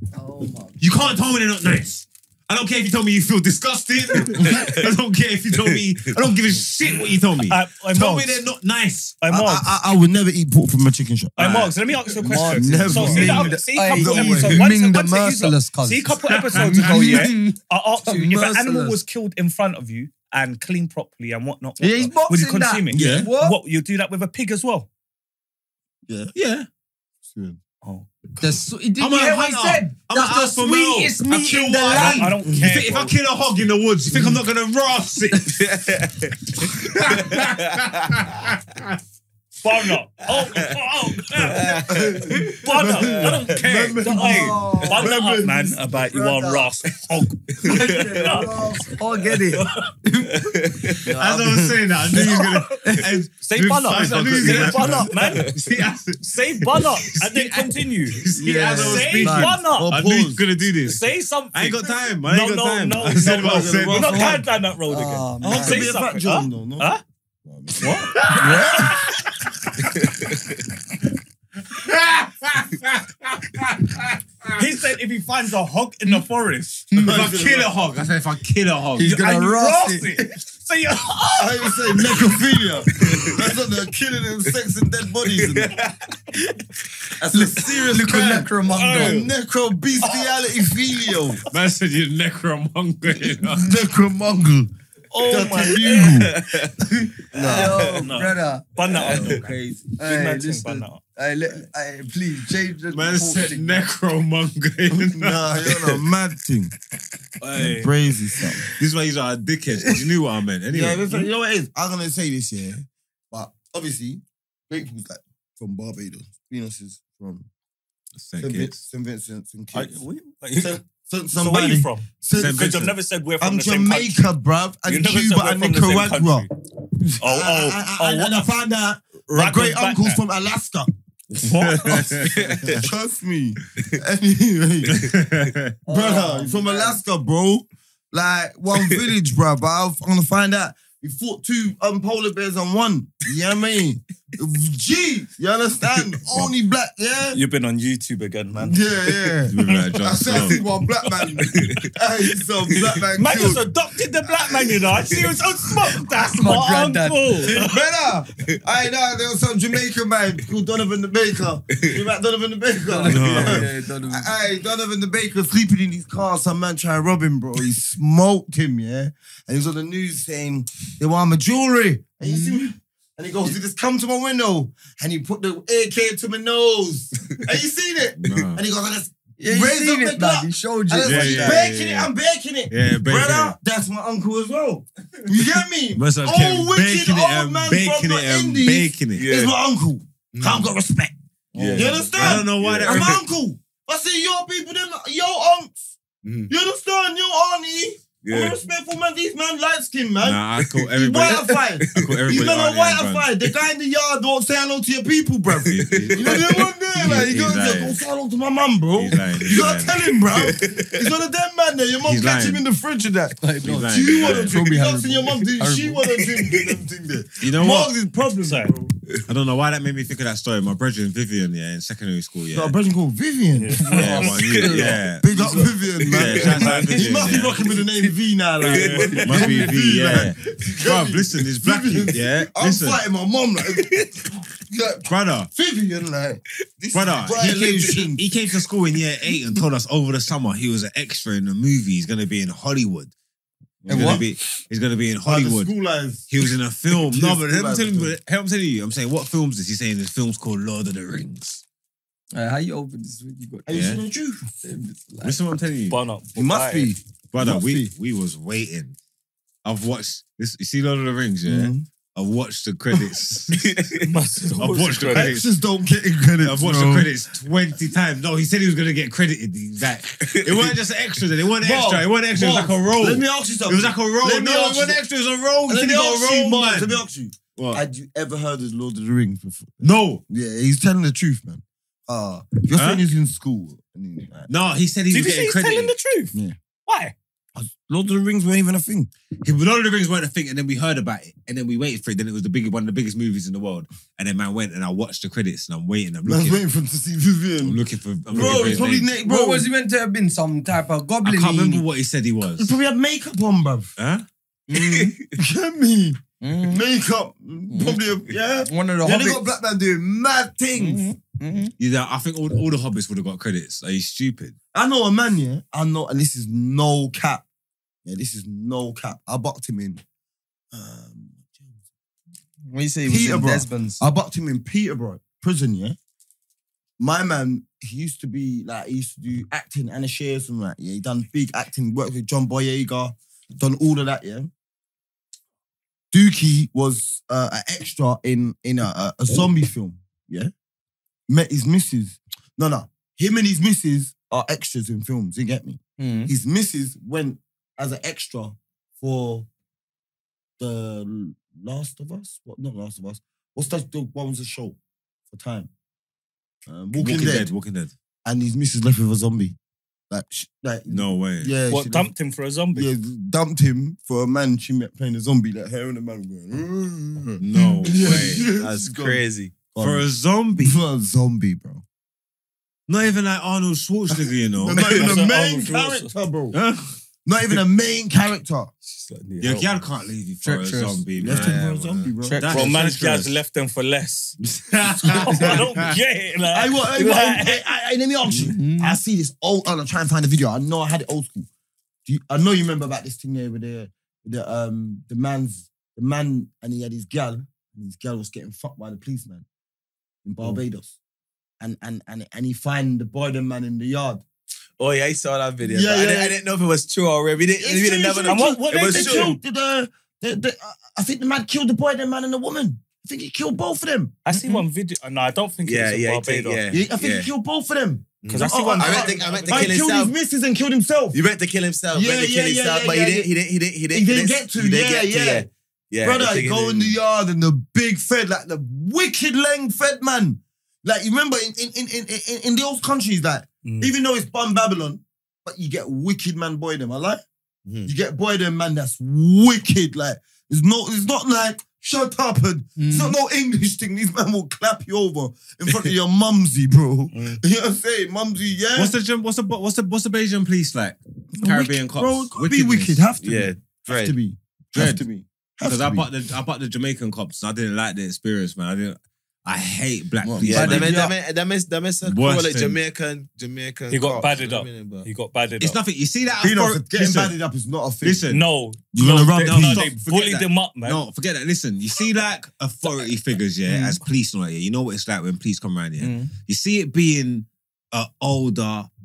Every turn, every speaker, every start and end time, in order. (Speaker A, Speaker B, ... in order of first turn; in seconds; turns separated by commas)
Speaker A: 0.1-1.2, Speaker B: 0.8-9.2, Speaker C: 4.5-4.8, Speaker C: 5.5-6.1, Speaker D: 7.4-8.5, Speaker D: 9.2-9.7, Speaker E: 9.3-11.4, Speaker D: 11.4-24.9, Speaker B: 11.4-11.7, Speaker A: 12.2-19.0, Speaker E: 12.5-14.6, Speaker B: 16.2-17.3, Speaker A: 21.8-23.6, Speaker E: 22.9-23.3, Speaker B: 22.9-23.3, Speaker E: 26.1-26.3, Speaker B: 26.3-26.7, Speaker E: 27.2-27.6, Speaker D: 27.8-28.4, Speaker A: 28.4-32.3, Speaker B: 29.0-35.8, Speaker D: 31.9-33.1, Speaker C: 35.5-38.2, Speaker B: 36.6-39.0, Speaker D: 39.6-41.9, Speaker C: 40.3-40.7, Speaker C: 41.3-43.5, Speaker E: 41.9-46.7, Speaker D: 42.5-49.9, Speaker A: 44.0-45.2, Speaker A: 46.1-46.5, Speaker A: 47.6-51.7, Speaker C: 47.7-48.4, Speaker C: 50.3-51.0, Speaker B: 51.1-64.4, Speaker D: 52.2-55.7, Speaker E: 54.0-55.1, Speaker D: 56.2-58.2, Speaker A: 58.4-59.6, Speaker E: 58.6-60.4, Speaker D: 58.8-59.9, Speaker D: 60.8-67.0, Speaker E: 63.0-64.5, Speaker A: 64.9-66.0, Speaker E: 65.4-66.9, Speaker E: 67.4-68.9, Speaker D: 67.8-68.9, Speaker B: 68.1-69.5, Speaker A: 68.3-68.9, Speaker C: 70.0-70.5, Speaker B: 71.7-74.6, Speaker D: 74.6-77.0, Speaker A: 76.9-77.2, Speaker E: 77.0-77.7, Speaker B: 77.0-79.2, Speaker A: 78.9-80.3, Speaker D: 79.0-82.4, Speaker E: 81.4-85.8, Speaker C: 83.0-83.3, Speaker C: 85.3-85.9, Speaker E: 87.2-91.4, Speaker A: 87.3-89.3, Speaker D: 88.7-89.3, Speaker D: 90.0-90.4, Speaker B: 91.5-93.7, Speaker E: 93.4-94.7, Speaker D: 95.1-96.3, Speaker E: 95.2-96.3, Speaker C: 95.9-96.7, Speaker E: 97.3-97.9, Speaker D: 97.4-101.0, Speaker A: 97.4-98.7, Speaker C: 97.5-98.0, Speaker C: 99.0-99.3, Speaker E: 99.0-99.9, Speaker A: 100.0-103.8, Speaker B: 102.9-106.0, Speaker E: 104.9-106.7, Speaker D: 107.4-107.9, Speaker E: 107.5-108.6, Speaker B: 108.7-111.2, Speaker E: 110.7-117.5, Speaker B: 118.2-118.8, Speaker E: 118.4-120.0, Speaker D: 119.7-120.8, Speaker E: 120.6-130.9, Speaker D: 121.3-124.2, Speaker B: 122.3-122.9, Speaker D: 124.8-126.5, Speaker D: 127.2-128.5, Speaker D: 129.3-130.2, Speaker D: 131.4-132.5, Speaker B: 131.4-132.6, Speaker C: 132.2-132.8, Speaker E: 132.6-135.0, Speaker B: 134.9-135.8, Speaker A: 135.8-137.0, Speaker E: 135.9-147.4, Speaker D: 147.3-148.8, Speaker E: 148.6-153.6, Speaker B: 149.5-150.6, Speaker D: 149.6-150.1, Speaker C: 151.4-151.9, Speaker C: 152.7-153.0, Speaker D: 153.2-157.8, Speaker C: 154.4-155.4, Speaker A: 156.2-157.5, Speaker E: 157.4-191.1, Speaker A: 162.9-164.3, Speaker B: 163.1-163.7, Speaker A: 172.2-172.7, Speaker B: 178.2-178.6, Speaker A: 179.4-181.7, Speaker B: 181.0-182.1, Speaker B: 182.7-183.6, Speaker B: 185.9-189.2, Speaker C: 189.2-189.5, Speaker C: 190.3-190.7, Speaker A: 191.5-192.1, Speaker B: 191.5-193.2, Speaker E: 191.7-195.9, Speaker C: 192.2-193.2, Speaker C: 196.2-196.5, Speaker E: 196.5-218.9, Speaker C: 198.2-198.6, Speaker B: 200.2-203.3, Speaker C: 200.6-200.9, Speaker C: 201.5-202.2, Speaker C: 205.6-206.7, Speaker B: 205.7-208.0, Speaker B: 209.0-209.9, Speaker C: 210.2-211.0, Speaker B: 212.0-212.6, Speaker A: 213.4-216.0, Speaker B: 213.6-214.6, Speaker C: 216.3-216.8, Speaker B: 217.4-217.9, Speaker D: 218.4-218.7, Speaker B: 219.3-222.7, Speaker E: 222.5-224.2, Speaker D: 223.5-224.8, Speaker A: 223.8-225.6, Speaker B: 223.9-225.3, Speaker E: 225.1-234.1, Speaker C: 226.0-226.9, Speaker B: 226.1-227.6, Speaker C: 228.6-229.6, Speaker B: 229.2-233.0, Speaker C: 233.7-234.1, Speaker E: 234.7-238.2, Speaker B: 235.1-235.5, Speaker B: 236.9-243.1, Speaker E: 243.8-244.3, Speaker A: 243.9-244.2, Speaker B: 243.9-245.7, Speaker E: 245.2-246.3, Speaker B: 246.3-251.6, Speaker E: 246.9-248.1, Speaker A: 252.3-254.0, Speaker E: 253.7-254.4, Speaker B: 253.7-254.0, Speaker A: 254.6-255.4, Speaker B: 255.2-256.0, Speaker D: 255.9-256.9, Speaker E: 256.4-257.9, Speaker B: 257.3-258.9, Speaker B: 259.6-263.9, Speaker E: 261.4-261.9, Speaker C: 263.5-264.1, Speaker D: 264.0-265.3, Speaker B: 264.6-265.4, Speaker E: 265.1-267.1, Speaker B: 266.4-277.0, Speaker C: 270.2-270.7, Speaker E: 271.6-275.0, Speaker E: 275.7-284.5, Speaker B: 277.5-277.8, Speaker B: 279.8-280.2, Speaker B: 282.8-283.0, Speaker B: 284.5-285.9, Speaker D: 285.1-287.1, Speaker E: 287.5-289.1, Speaker B: 289.4-296.6, Speaker E: 296.2-297.8, Speaker B: 297.6-299.1, Speaker E: 298.3-299.7, Speaker A: 298.3-301.8, Speaker B: 301.2-302.7, Speaker E: 302.6-303.9, Speaker B: 304.0-304.2, Speaker E: 304.7-311.1, Speaker A: 304.7-305.1, Speaker C: 304.7-305.3, Speaker A: 306.4-306.8, Speaker A: 307.7-309.4, Speaker A: 310.8-311.7, Speaker B: 311.8-314.6, Speaker E: 314.7-317.4, Speaker E: 318.0-320.0, Speaker E: 320.7-321.8, Speaker A: 322.7-324.0, Speaker E: 323.0-326.0, Speaker E: 327.0-334.5, Speaker E: 336.1-340.5, Speaker E: 341.3-349.5, Speaker A: 346.0-346.3, Speaker E: 350.6-354.8, Speaker E: 355.3-355.7, Speaker E: 356.6-357.5, Speaker B: 356.9-357.9, Speaker E: 358.2-359.6, Speaker E: 360.1-362.1, Speaker B: 360.9-361.5, Speaker D: 361.7-362.9, Speaker E: 362.7-369.2, Speaker B: 367.4-368.5, Speaker C: 367.9-369.6, Speaker E: 369.7-370.1, Speaker B: 369.8-370.8, Speaker E: 370.6-371.8, Speaker B: 372.9-375.1, Speaker E: 374.5-376.6, Speaker D: 374.8-376.1, Speaker B: 376.5-376.9, Speaker E: 377.2-378.7, Speaker B: 379.4-383.3, Speaker D: 379.4-379.7, Speaker A: 380.4-381.0, Speaker E: 381.1-382.5, Speaker C: 381.3-381.6, Speaker A: 382.2-382.6, Speaker D: 382.5-384.4, Speaker B: 384.6-385.9, Speaker D: 385.0-387.6, Speaker E: 385.1-385.5, Speaker E: 386.5-391.5, Speaker A: 388.3-389.0, Speaker E: 392.1-399.4, Speaker E: 400.2-400.9, Speaker E: 401.6-404.2, Speaker C: 404.8-409.4, Speaker E: 405.6-406.4, Speaker E: 407.6-414.2, Speaker D: 408.2-409.4, Speaker D: 414.2-416.6, Speaker C: 415.6-417.3, Speaker E: 416.7-421.2, Speaker C: 418.2-420.1, Speaker D: 418.3-419.8, Speaker C: 421.1-426.9, Speaker E: 421.9-423.3, Speaker E: 423.9-425.5, Speaker E: 426.0-437.2, Speaker D: 433.6-433.9, Speaker C: 437.6-437.9, Speaker E: 437.8-448.9, Speaker A: 442.8-443.1, Speaker D: 447.1-447.4, Speaker B: 448.8-453.0, Speaker E: 451.4-456.1, Speaker C: 453.2-454.1, Speaker B: 454.7-455.0, Speaker B: 455.6-461.0, Speaker A: 460.2-461.1, Speaker C: 460.4-465.1, Speaker B: 462.0-462.8, Speaker D: 463.9-465.8, Speaker B: 465.6-467.3, Speaker E: 466.4-468.2, Speaker B: 468.0-468.4, Speaker D: 468.3-471.0, Speaker E: 468.9-469.9, Speaker B: 469.3-478.9, Speaker A: 473.7-474.0, Speaker A: 476.0-476.3